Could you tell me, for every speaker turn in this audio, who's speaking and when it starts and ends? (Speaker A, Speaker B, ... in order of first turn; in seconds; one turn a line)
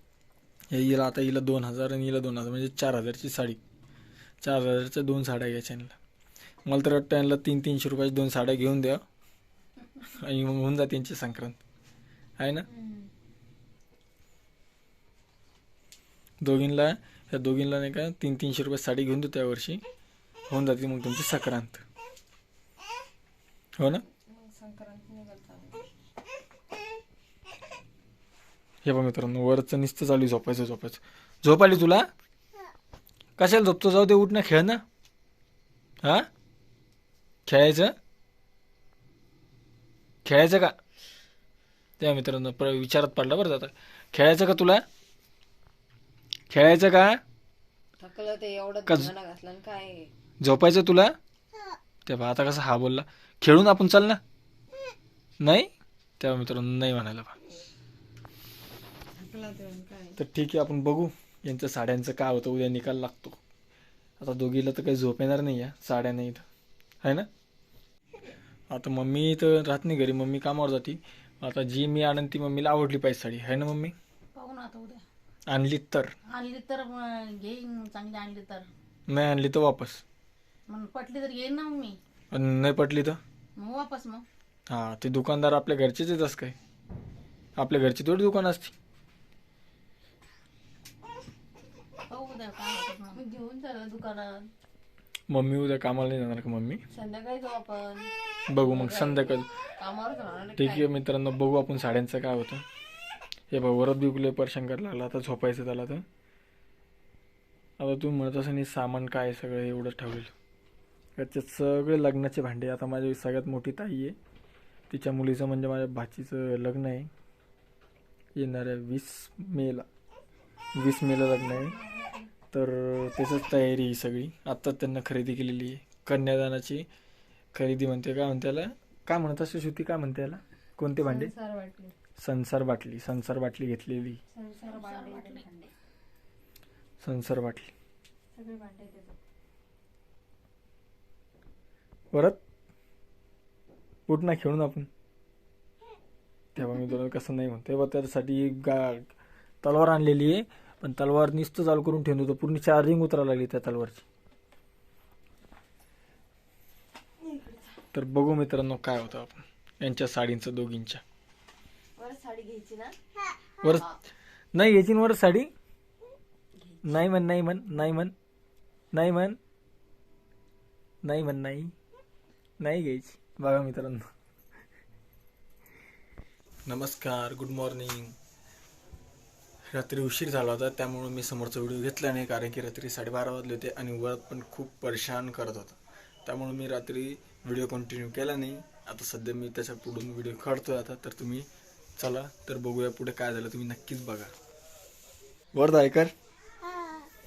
Speaker A: 0.7-3.6
Speaker A: 4.4-6.0
Speaker A: 6.7-9.0
Speaker A: 10.0-11.6
Speaker A: 12.4-12.7
Speaker B: 12.7-13.1
Speaker A: 16.4-19.8
Speaker A: 20.5-21.8
Speaker B: 24.3-25.8
Speaker A: 28.8-32.1
Speaker A: 33.4-34.8
Speaker A: 37.5-37.9
Speaker A: 40.2-40.7
Speaker A: 42.0-44.8
Speaker A: 46.5-47.2
Speaker B: 48.0-50.1
Speaker A: 50.4-51.1
Speaker A: 52.0-54.2
Speaker A: 55.4-55.7
Speaker A: 56.2-57.4
Speaker B: 59.1-60.2
Speaker A: 60.2-63.4
Speaker A: 64.2-66.4
Speaker A: 67.0-67.3
Speaker A: 68.7-73.9
Speaker C: 74.3-75.0
Speaker A: 75.5-76.1
Speaker C: 76.3-78.7
Speaker A: 79.1-80.0
Speaker C: 80.7-82.0
Speaker A: 82.3-83.2
Speaker C: 83.5-84.2
Speaker A: 84.7-86.5
Speaker A: 87.6-88.7
Speaker C: 92.1-93.2
Speaker B: 93.1-94.5
Speaker A: 95.3-96.8
Speaker B: 96.9-100.9
Speaker A: 98.5-99.5
Speaker A: 100.6-102.6
Speaker A: 103.5-106.0
Speaker A: 107.8-110.3
Speaker A: 111.2-114.1
Speaker A: 114.9-117.1
Speaker A: 118.3-119.8
Speaker A: 120.7-121.7
Speaker B: 121.5-122.3
Speaker A: 122.5-126.8
Speaker A: 127.5-131.3
Speaker B: 131.0-131.9
Speaker A: 132.2-134.2
Speaker B: 134.3-135.7
Speaker C: 134.6-135.7
Speaker A: 137.0-137.7
Speaker B: 138.3-139.1
Speaker A: 142.1-142.4
Speaker A: 144.1-144.9
Speaker A: 146.5-149.1
Speaker A: 149.6-154.0
Speaker B: 157.2-157.8
Speaker A: 157.9-161.0
Speaker B: 162.0-162.9
Speaker B: 163.7-164.0
Speaker A: 164.5-165.5
Speaker A: 166.8-168.1
Speaker A: 168.9-169.4
Speaker A: 171.0-171.7
Speaker A: 172.6-174.0
Speaker A: 176.7-178.1
Speaker A: 179.7-194.3
Speaker A: 195.5-196.1